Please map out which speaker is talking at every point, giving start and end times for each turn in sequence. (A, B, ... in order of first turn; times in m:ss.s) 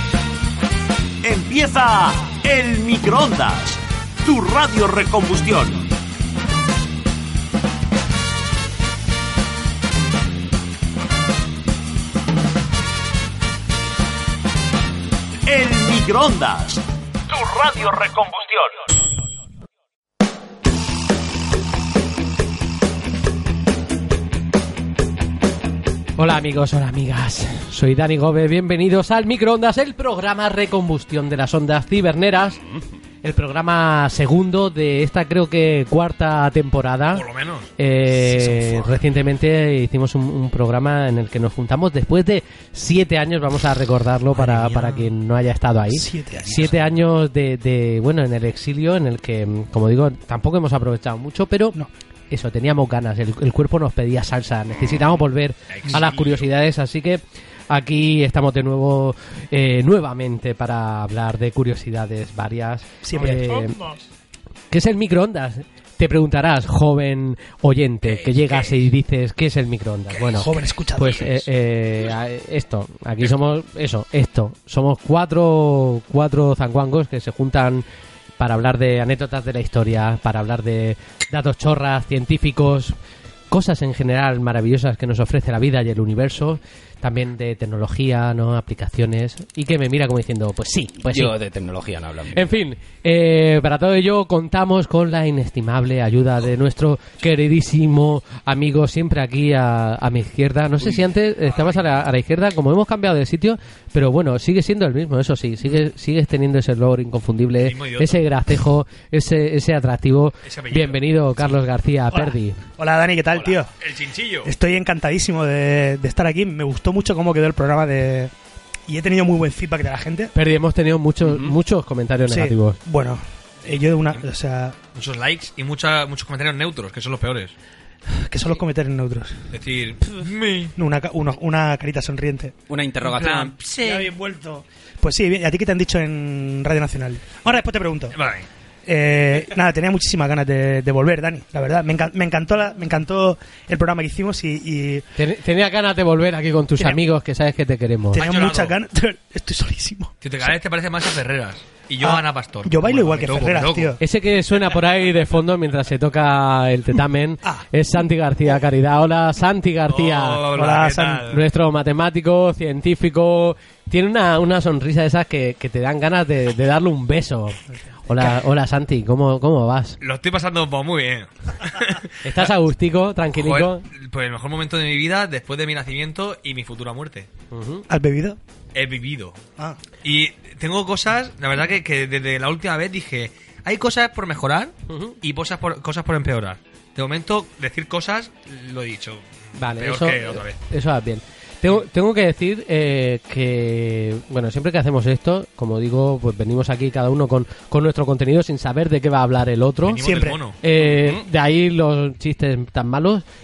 0:01.2-0:05.9 A
0:15.5-0:18.9 A
0:26.2-0:32.6 B
0:33.2-0:37.2 B
0:37.1-0:37.7 C
0:37.8-1:03.8 B
0:38.1-0:38.9 D
0:44.5-0:45.0 D
0:45.9-0:46.9 D
0:55.8-0:56.5 C
1:03.0-1:04.0 D
1:04.7-1:17.8 B
1:08.0-1:08.9 C
1:10.1-1:11.1 C
1:10.3-1:11.4 D
1:18.4-1:23.0 B
1:23.5-1:31.4 B
1:31.0-1:32.5 E
1:32.3-1:52.6 B
1:47.6-1:48.3 C
1:50.4-1:51.5 C
1:52.1-1:53.7 D
1:53.3-1:54.5 C
1:54.4-1:58.3 D
1:58.9-2:00.3 D
2:00.4-2:02.8 B
2:01.2-2:01.6 E
2:02.3-2:04.8 D
2:05.0-2:07.5 C
2:08.1-2:09.4 D
2:09.5-2:10.8 C
2:10.8-2:12.6 D
2:12.7-2:13.6 E
2:13.0-2:14.1 C
2:13.8-2:18.2 D
2:18.1-2:18.5 C
2:18.9-2:25.1 D
2:25.2-2:28.2 B
2:28.1-2:28.8 C
2:28.1-2:30.1 D
2:30.2-2:34.0 C
2:32.0-2:34.0 D
2:34.0-2:40.5 B
2:39.9-2:41.4 C
2:40.5-2:41.3 D
2:41.3-2:50.0 B
2:50.0-2:52.5 C
2:52.2-2:53.9 B
2:53.3-2:57.3 C
2:57.5-2:57.9 B
2:57.9-2:58.4 D
2:58.8-2:59.4 C
3:00.0-3:10.6 C
3:04.9-3:05.2 B
3:09.6-3:20.1 B
3:19.9-3:20.6 C
3:20.0-3:20.4 D
3:20.6-3:23.2 B
3:20.8-3:21.2 E